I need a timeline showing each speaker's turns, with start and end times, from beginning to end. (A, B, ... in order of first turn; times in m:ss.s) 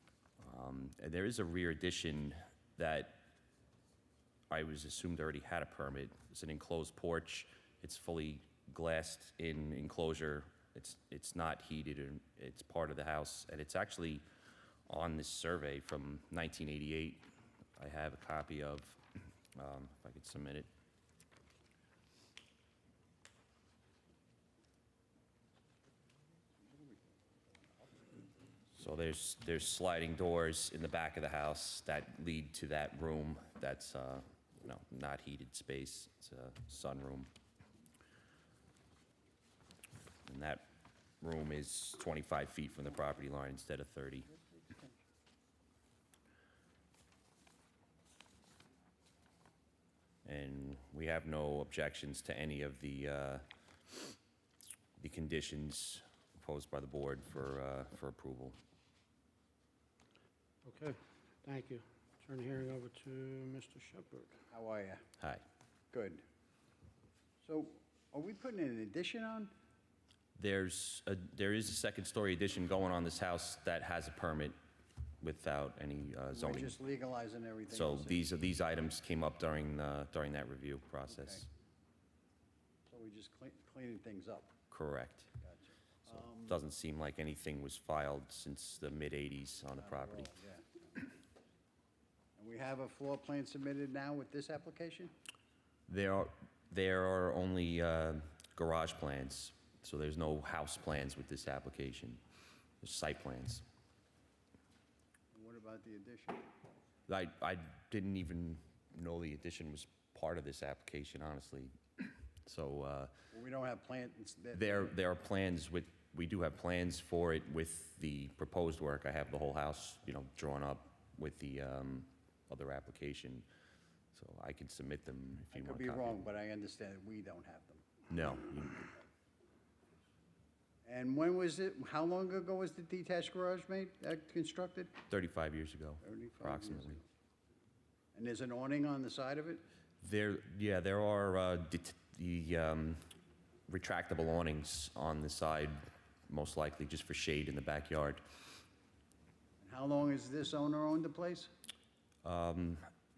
0:00.4-0:03.2 A
0:04.5-0:14.2 A
0:14.9-0:17.2 A
0:17.8-0:19.0 A
0:19.6-0:20.7 A
0:26.6-0:28.2 B
0:28.8-0:37.3 A
0:40.3-0:40.6 A
0:41.2-0:44.3 A
0:44.3-0:45.0 B
0:50.2-0:53.4 A
0:55.0-0:58.6 A
1:00.6-1:04.4 C
1:04.5-1:05.0 B
1:05.2-1:05.4 A
1:05.9-1:06.2 B
1:07.4-1:09.5 B
1:10.4-1:14.6 A
1:15.2-1:16.8 A
1:16.3-1:18.2 B
1:17.7-1:21.5 A
1:21.1-1:21.4 B
1:22.9-1:24.5 B
1:24.7-1:25.3 A
1:25.4-1:26.6 B
1:26.1-1:30.3 A
1:29.8-1:31.1 B
1:32.4-1:35.1 B
1:35.9-1:42.2 A
1:42.8-1:43.6 A
1:45.3-1:46.5 B
1:47.1-1:51.7 A
1:52.4-1:53.1 A
1:53.3-1:54.9 B
1:54.5-2:03.4 A
2:04.1-2:06.2 A
2:05.5-2:07.9 B
2:08.1-2:08.9 A
2:10.8-2:15.0 B
2:15.1-2:17.0 A
2:16.0-2:17.0 B
2:18.1-2:19.6 B
2:20.0-2:23.0 A
2:23.7-2:28.2 A
2:29.6-2:31.5 B
2:32.2-2:32.9 A